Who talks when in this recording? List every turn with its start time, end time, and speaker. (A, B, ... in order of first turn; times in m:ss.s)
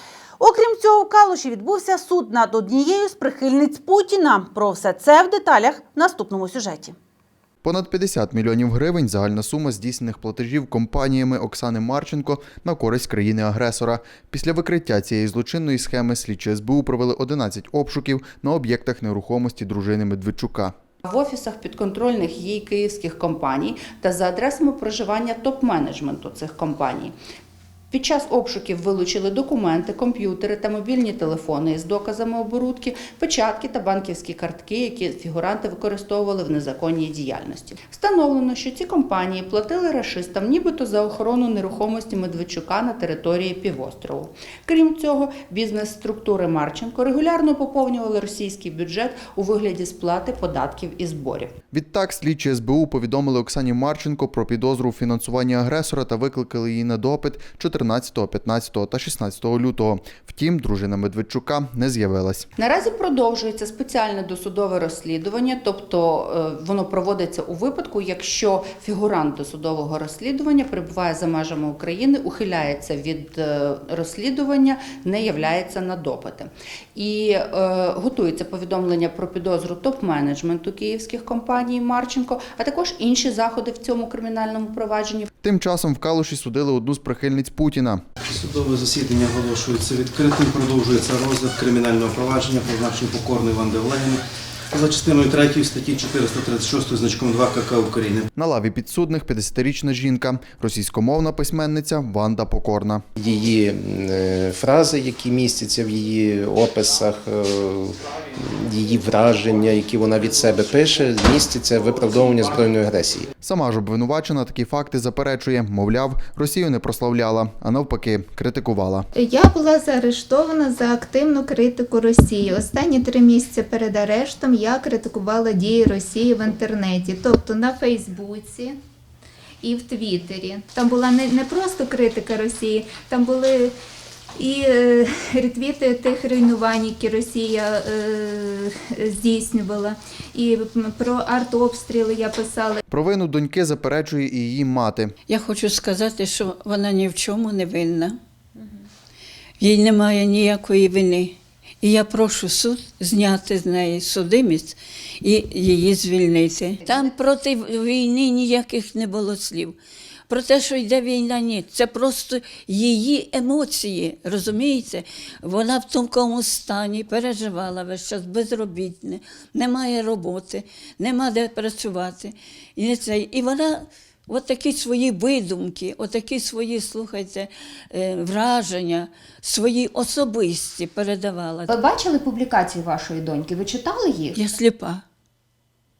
0:00.4-0:06.9 A
0:07.6-0:20.7 B
0:21.0-0:27.1 C
0:27.9-0:51.5 C
0:51.7-1:02.5 B
1:02.6-1:25.3 C
1:25.4-1:28.0 B
1:28.2-1:38.3 D
1:38.4-1:43.0 B
1:43.2-1:53.3 E
1:53.4-1:59.1 B
1:59.1-2:08.7 F
2:09.6-2:13.7 F
2:14.4-2:22.8 F
2:22.9-2:25.1 B
2:25.3-2:28.2 G
2:29.6-2:39.8 G
2:36.8-2:37.1 H
2:40.3-3:01.7 G
3:01.7-3:04.4 H
3:04.3-3:05.0 G